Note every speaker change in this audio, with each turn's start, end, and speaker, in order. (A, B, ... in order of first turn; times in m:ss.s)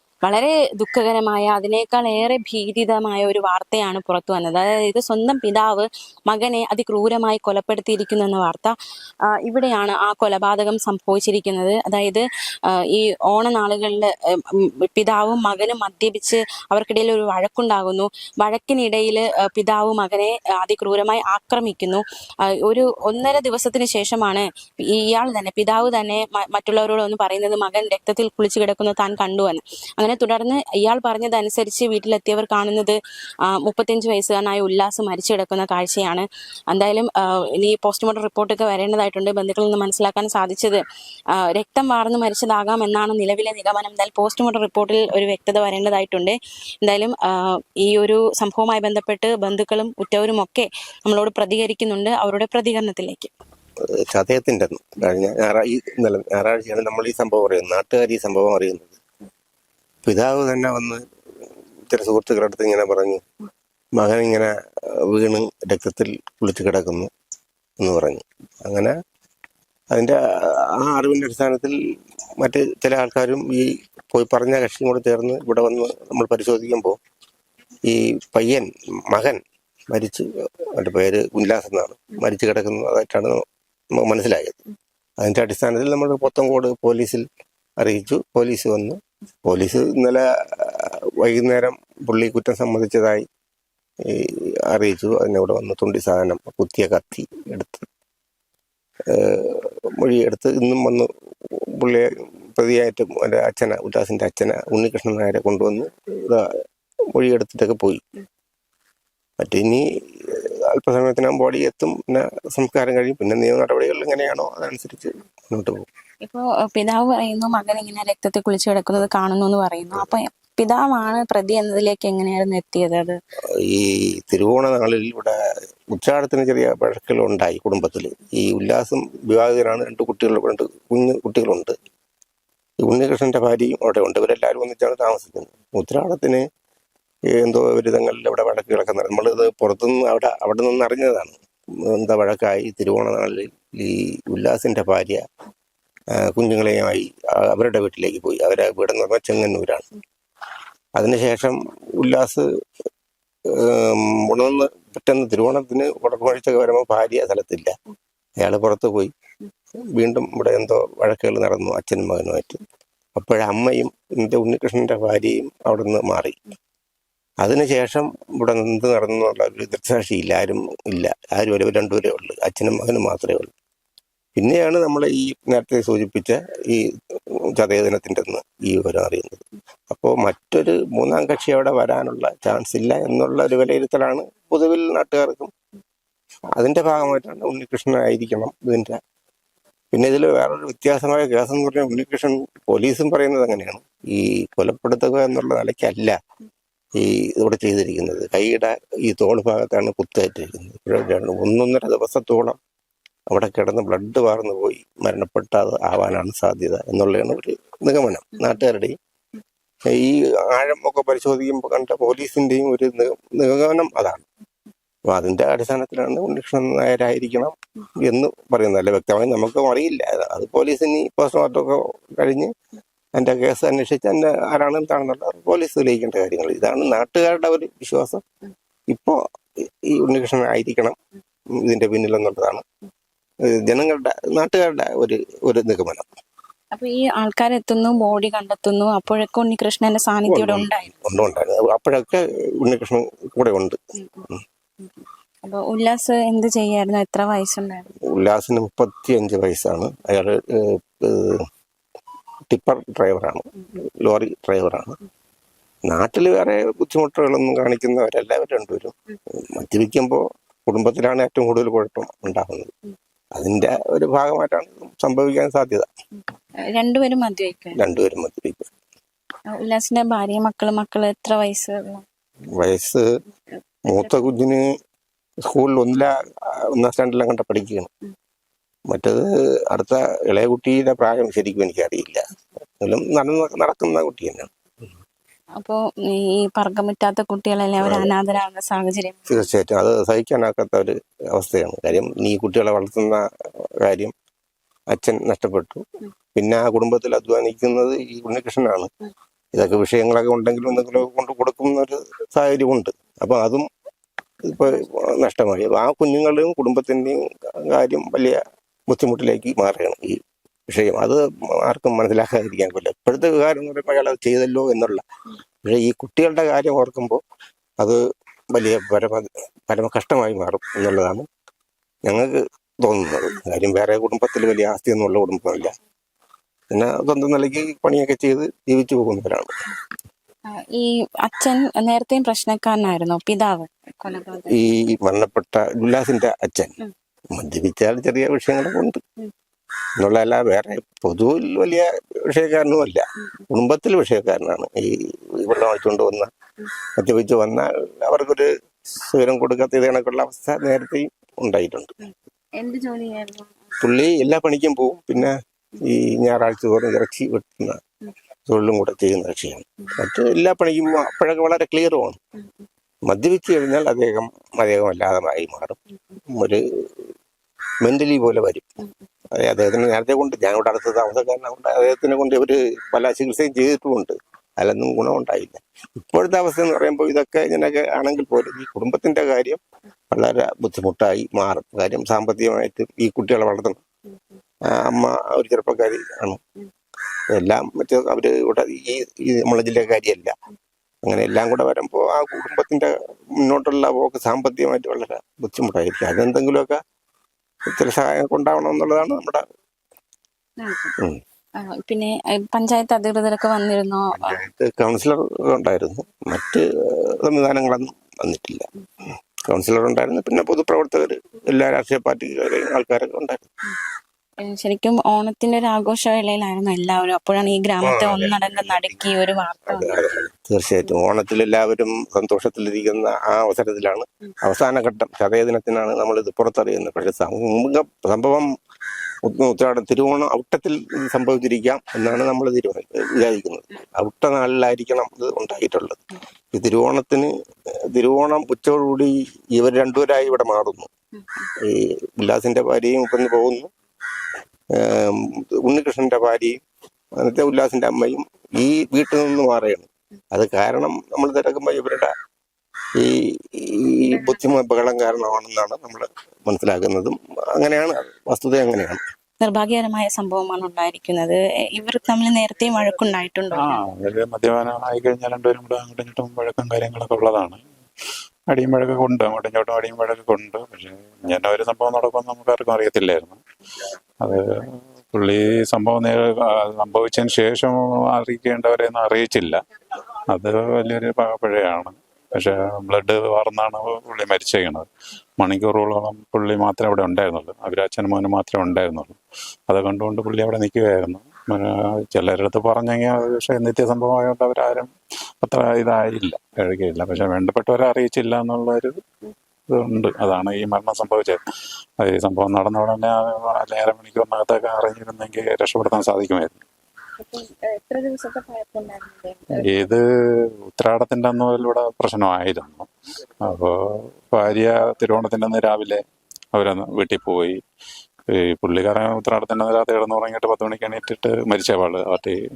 0:00.2-0:08.7 A
0:09.4-0:33.0 A
0:33.5-0:40.8 A
0:41.3-0:53.3 A
0:54.0-0:59.0 B
1:00.0-1:01.0 B
1:01.9-1:03.2 B
1:04.0-1:07.1 B
1:07.8-1:08.9 B
1:09.9-1:10.2 B
1:10.7-1:11.8 B
1:12.4-1:17.0 B
1:17.9-1:19.4 B
1:19.9-1:23.4 B
1:23.9-1:24.6 B
1:25.2-1:27.2 B
1:27.8-1:33.2 B
1:34.0-1:37.8 B
1:39.1-1:41.1 B
1:41.8-1:46.5 B
1:47.1-1:48.0 B
1:49.4-1:55.8 B
1:56.2-2:03.2 A
2:03.6-2:05.4 B
2:05.9-2:11.7 B
2:12.8-2:16.4 B
2:17.3-2:25.2 B
2:26.2-2:29.8 B
2:30.9-2:32.4 B
2:33.5-2:37.7 B
2:38.4-2:39.1 B
2:39.7-2:42.6 B
2:43.1-2:46.4 B
2:47.4-2:53.5 B
2:54.3-3:05.5 B
3:06.6-3:09.0 B
3:09.9-3:16.2 B
3:17.0-3:22.6 B
3:23.3-3:28.9 B
3:29.9-3:34.2 B
3:35.1-3:42.5 B
3:43.2-3:48.2 B
3:48.9-3:49.2 B
3:49.9-3:51.0 B
3:51.6-3:52.6 B
3:53.5-3:56.2 B
3:56.7-4:00.9 A
4:00.3-4:03.8 B
4:04.8-4:07.9 A
4:08.1-4:11.4 B
4:12.5-4:13.5 B
4:14.0-4:14.9 B
4:15.9-4:22.7 B
4:23.3-4:25.9 B
4:26.7-4:27.8 A
4:27.7-4:28.7 B
4:29.6-4:32.0 A
4:32.6-4:33.0 B
4:33.9-4:34.6 B
4:35.5-4:36.1 B
4:36.7-4:37.9 B
4:38.9-4:42.2 B
4:42.8-4:44.5 B
4:45.6-4:49.4 A
4:47.8-4:48.1 B
4:49.3-4:53.2 B
4:53.8-4:54.1 B
4:54.9-4:55.8 B
4:56.3-4:58.9 B
4:59.5-5:03.6 B
5:04.4-5:15.0 B
5:15.6-5:17.2 B
5:18.5-5:21.2 B
5:22.0-5:25.7 B
5:26.7-5:29.5 B
5:30.5-5:34.6 A
5:34.5-5:36.8 B
5:37.3-5:39.0 B
5:40.0-5:46.3 B
5:47.0-5:52.0 B
5:52.6-5:53.7 A
5:53.8-5:55.4 B
5:55.9-5:57.8 B
5:58.5-6:02.2 B
6:03.1-6:05.8 B
6:06.3-6:07.0 B
6:07.8-6:08.6 B
6:09.3-6:19.6 B
6:20.1-6:23.8 B
6:24.7-6:26.4 B
6:27.3-6:30.3 B
6:31.0-6:36.8 B
6:37.7-6:39.4 B
6:40.6-6:40.9 A
6:41.6-6:44.4 A
6:44.1-6:48.7 B
6:49.5-6:53.5 B
6:54.4-7:00.0 A
6:57.8-6:59.0 B
6:59.7-7:08.5 B
7:09.2-7:17.3 B
7:17.9-7:20.9 B
7:21.6-7:23.7 B
7:24.8-7:26.6 B
7:27.2-7:32.1 B
7:33.0-7:39.0 B
7:39.4-7:43.8 A
7:43.5-7:47.6 C
7:48.5-7:53.4 C
7:54.2-7:59.6 C
8:00.3-8:04.9 C
8:05.4-8:09.2 C
8:09.7-8:14.9 C
8:15.4-8:19.0 C
8:19.7-8:21.4 C
8:22.0-8:26.6 C
8:27.2-8:29.9 A
8:29.5-8:30.0 C
8:30.7-8:32.9 C
8:33.4-8:36.0 C
8:36.5-8:37.6 C
8:38.3-8:42.4 C